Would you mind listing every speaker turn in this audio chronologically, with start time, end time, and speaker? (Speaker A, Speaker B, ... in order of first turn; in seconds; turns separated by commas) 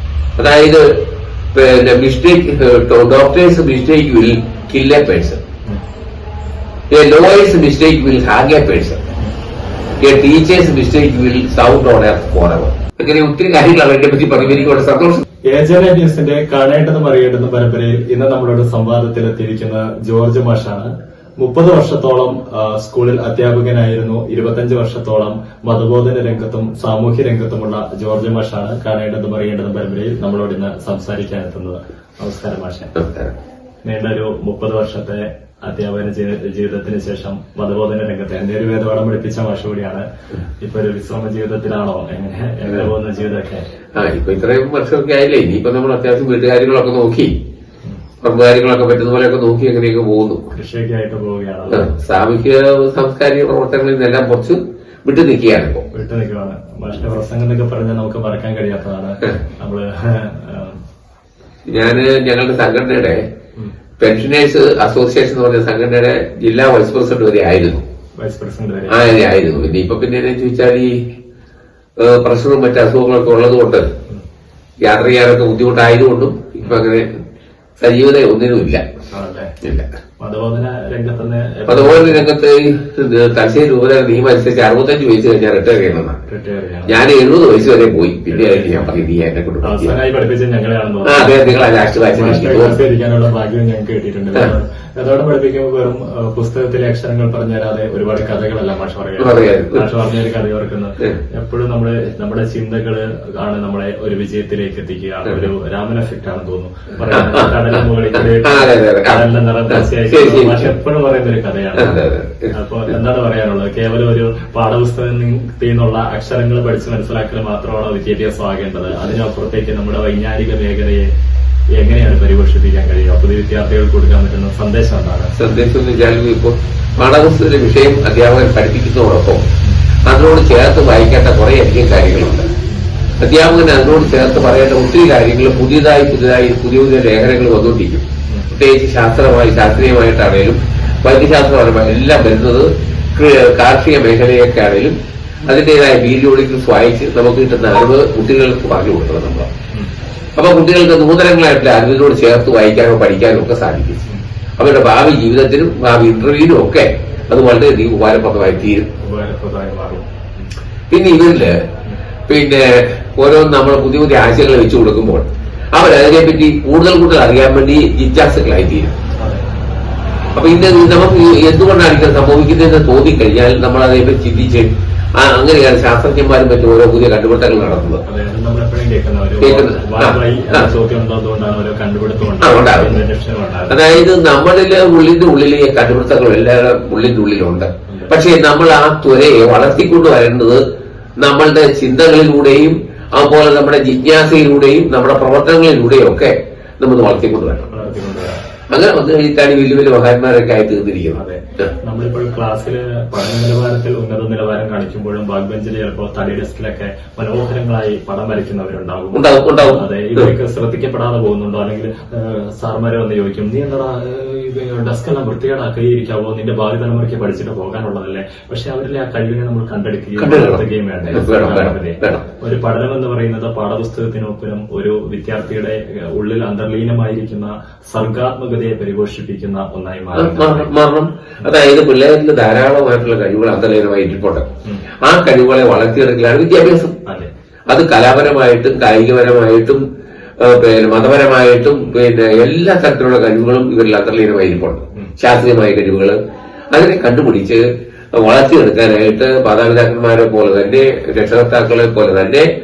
Speaker A: 0.4-1.0, Speaker A: 1.5-5.4, Speaker A: 6.9-9.0, Speaker A: 10.0-15.2, Speaker B: 15.5-33.0, Speaker A: 33.0-33.4, Speaker B: 33.9-40.1, Speaker B: 40.6-43.7, Speaker A: 44.0-47.4, Speaker A: 48.2-50.5, Speaker B: 50.5-51.9, Speaker A: 51.7-55.9, Speaker B: 55.9-60.8, Speaker A: 61.7-63.2, Speaker A: 64.0-67.8, Speaker B: 68.2-69.2, Speaker A: 68.9-71.0, Speaker A: 72.0-73.9, Speaker A: 74.8-77.1, Speaker A: 77.8-78.8, Speaker B: 79.1-79.5, Speaker A: 79.6-79.9, Speaker B: 80.2-82.3, Speaker A: 81.7-86.2, Speaker B: 86.3-87.0, Speaker A: 86.9-89.9, Speaker B: 88.3-89.0, Speaker B: 89.6-112.0, Speaker A: 91.0-92.8, Speaker A: 99.2-99.9, Speaker A: 107.1-110.7, Speaker A: 111.7-112.5, Speaker B: 112.5-121.1, Speaker B: 121.8-125.4, Speaker A: 125.4-129.4, Speaker A: 130.1-132.5, Speaker A: 133.2-149.5, Speaker A: 150.4-154.0, Speaker A: 154.6-158.9, Speaker B: 159.0-160.4, Speaker A: 160.9-161.6, Speaker A: 162.3-168.9, Speaker B: 169.2-169.4, Speaker A: 170.3-178.0, Speaker B: 178.1-184.1, Speaker A: 179.4-180.7, Speaker A: 182.4-183.0, Speaker A: 183.7-190.6, Speaker B: 187.9-188.1, Speaker A: 191.2-197.7, Speaker B: 197.7-198.4, Speaker A: 198.7-201.2, Speaker B: 201.2-230.7, Speaker A: 209.1-210.3, Speaker A: 220.2-222.2, Speaker A: 230.1-234.4, Speaker A: 235.1-236.9, Speaker A: 237.7-239.8, Speaker A: 240.4-246.2, Speaker A: 246.7-247.6, Speaker A: 248.2-252.5